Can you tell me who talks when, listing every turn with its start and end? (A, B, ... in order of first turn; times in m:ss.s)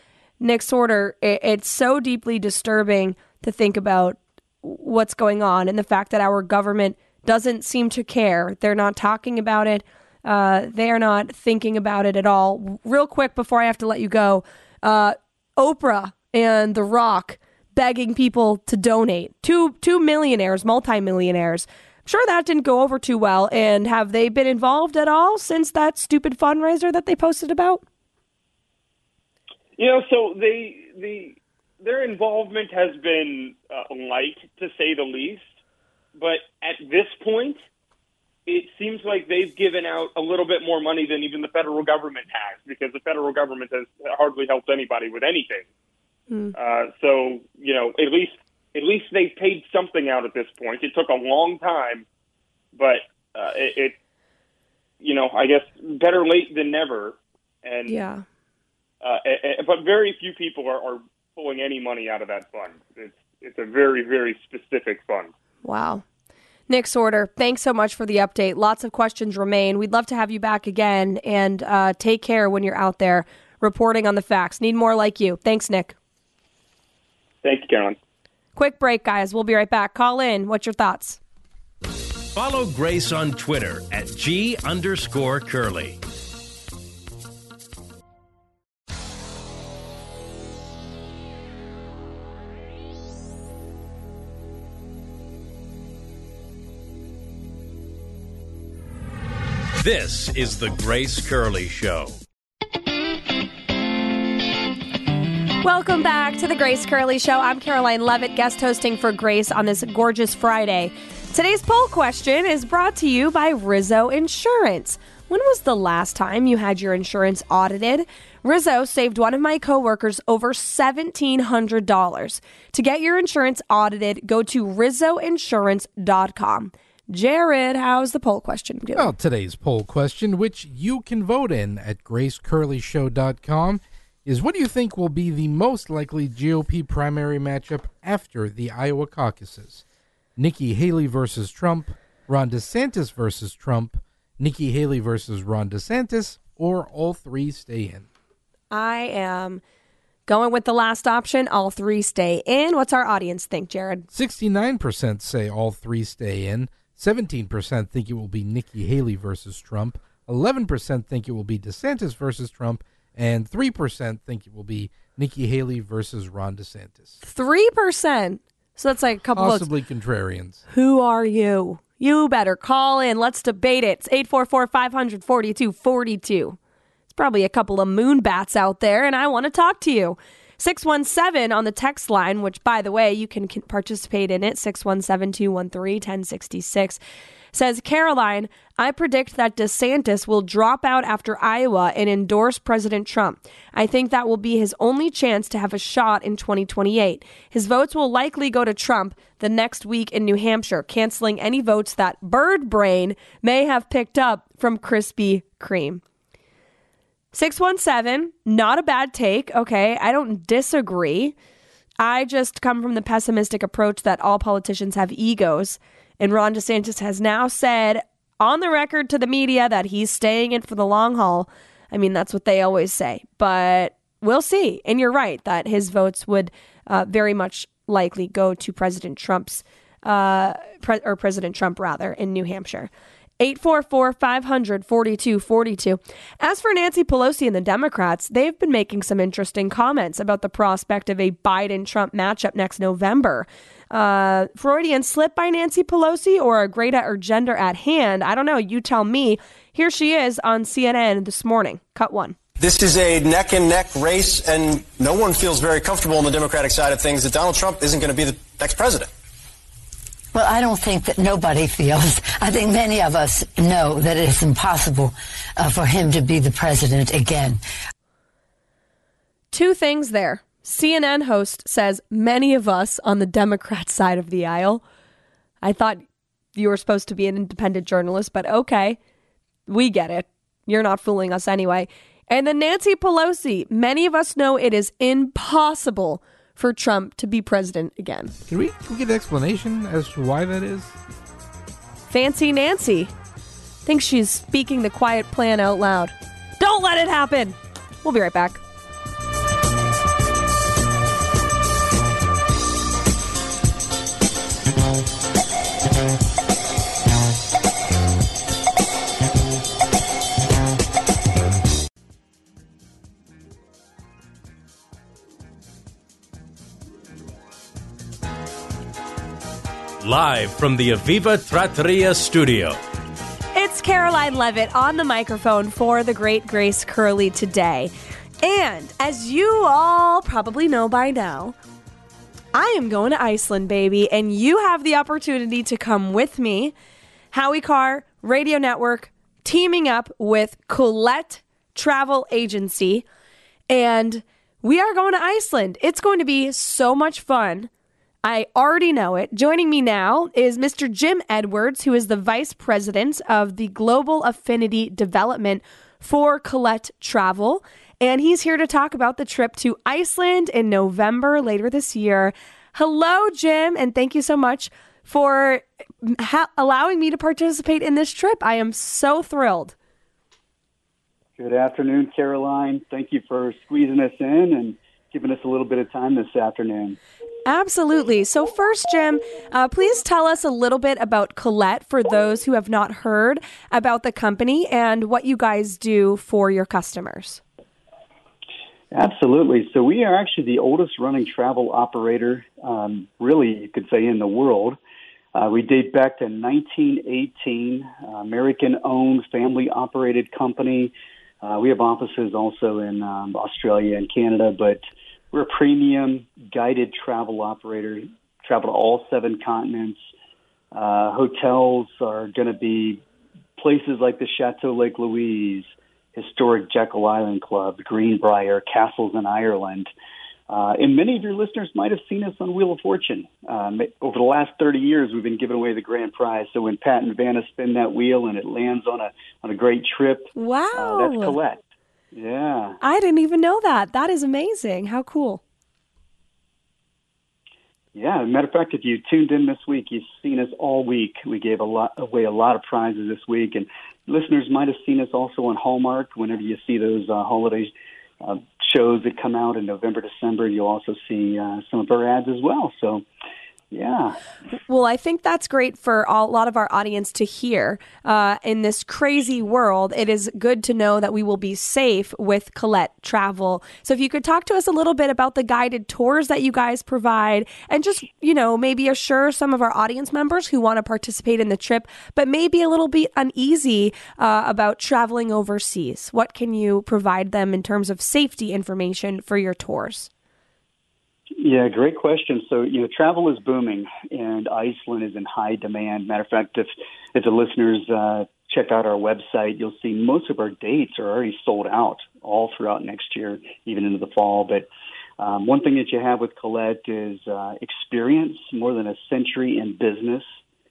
0:00.4-0:27.8 A
0:29.8-0:35.5 B
0:36.2-0:37.6 B
0:38.5-0:45.7 B
0:46.6-0:52.0 B
0:52.8-0:54.0 B
0:55.0-0:58.0 B
0:57.9-0:58.2 A
0:59.0-1:05.3 B
1:05.6-1:06.0 A
1:06.7-1:16.0 A
1:17.4-1:18.0 B
1:18.6-1:21.2 A
1:22.4-1:26.0 C
1:39.8-1:42.2 C
1:45.6-2:09.1 A
2:09.0-2:19.8 D
2:20.4-2:28.1 D
2:28.7-2:29.6 A
2:30.3-2:34.1 A
2:34.1-2:47.2 D
2:47.2-2:49.7 A
2:49.4-2:50.6 D
2:50.7-2:56.6 A
2:57.1-3:07.0 A
3:07.5-3:26.0 A
3:27.3-3:31.3 A
3:32.0-4:12.4 A
4:12.6-4:19.1 E
4:20.3-4:27.6 F
4:29.5-4:34.8 A
4:35.6-4:36.0 A
4:36.6-4:39.0 A
4:39.7-4:48.3 A
4:48.5-4:51.0 D
4:52.1-4:53.1 A
4:53.9-4:58.6 A
5:20.0-5:22.8 C
5:23.6-5:31.6 A
5:32.5-5:36.7 A
5:37.3-5:43.0 A
5:43.7-5:47.7 A
5:48.2-6:09.8 A
6:11.4-6:17.0 G
6:17.5-6:27.4 A
6:28.9-6:34.8 G
6:35.4-6:44.8 G
6:45.3-6:50.0 G
6:50.7-6:53.0 G
6:53.6-6:59.9 G
7:00.5-7:12.8 G
7:10.4-7:11.4 A
7:12.8-7:15.4 A
7:18.0-7:33.0 G
7:33.7-7:34.2 G
7:34.7-8:00.1 A
8:01.4-8:14.7 G
8:15.2-8:20.3 G